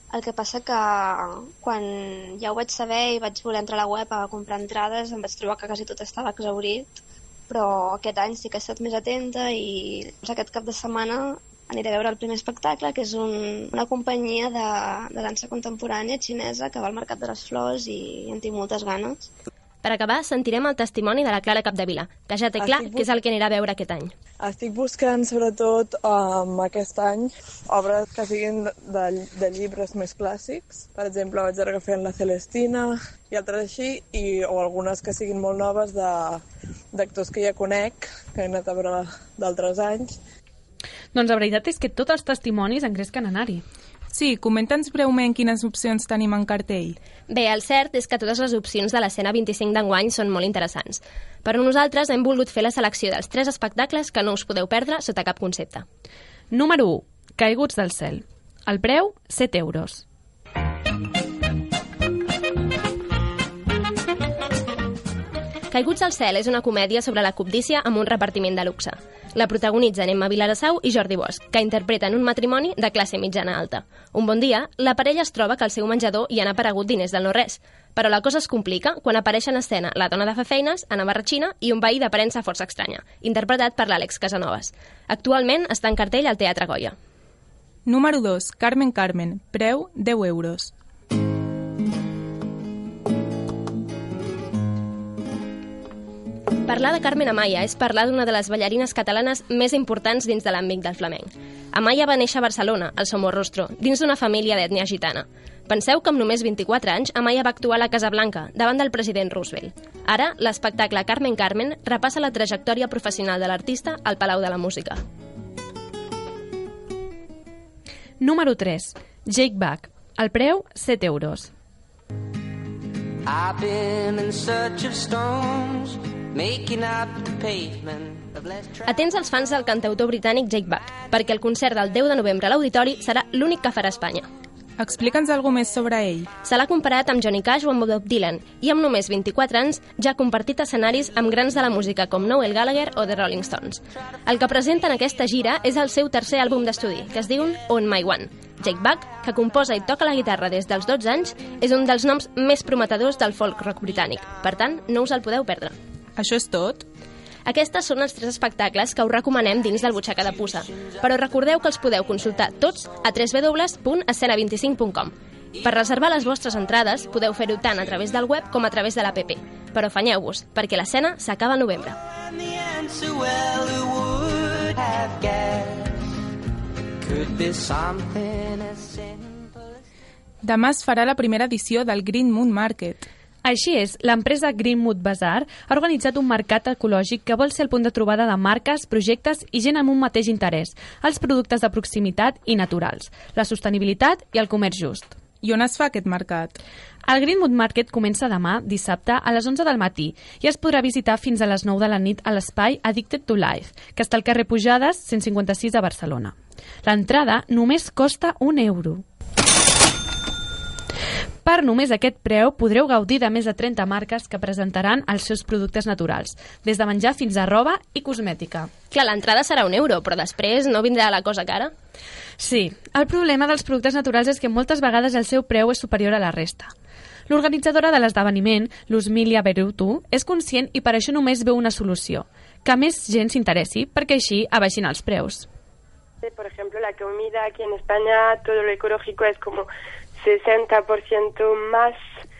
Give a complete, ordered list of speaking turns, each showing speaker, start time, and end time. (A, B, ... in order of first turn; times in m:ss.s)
0:00.3-0:00.8 A
0:02.5-0:06.9 A
0:07.5-0:09.6 A
0:10.2-0:11.1 A
0:11.8-0:13.3 A
0:13.8-0:14.6 A
0:15.2-0:19.2 A
0:19.8-0:24.1 B
0:22.6-0:23.1 C
0:24.4-0:36.4 C
0:36.9-0:40.2 C
0:41.1-0:43.6 D
0:44.1-0:47.0 E
0:47.3-0:55.8 B
0:56.5-1:00.0 D
1:05.7-1:26.9 B
1:27.8-1:30.7 E
1:36.7-1:55.0 B
1:58.2-2:01.5 D
2:03.2-2:08.7 F
2:08.8-2:14.3 B
2:14.8-2:16.3 E
2:16.4-2:35.7 B
2:36.2-2:36.8 E
2:37.4-2:52.0 B
2:52.4-2:55.9 F
2:57.0-2:59.2 F
3:00.4-3:03.1 E
3:03.4-3:15.2 D
3:15.4-3:16.6 E
3:17.1-3:29.0 D
3:31.4-3:38.7 D
3:38.9-3:41.7 B
3:42.4-3:46.7 D
3:47.3-3:55.4 D
3:56.2-3:59.7 G
4:00.2-4:02.0 G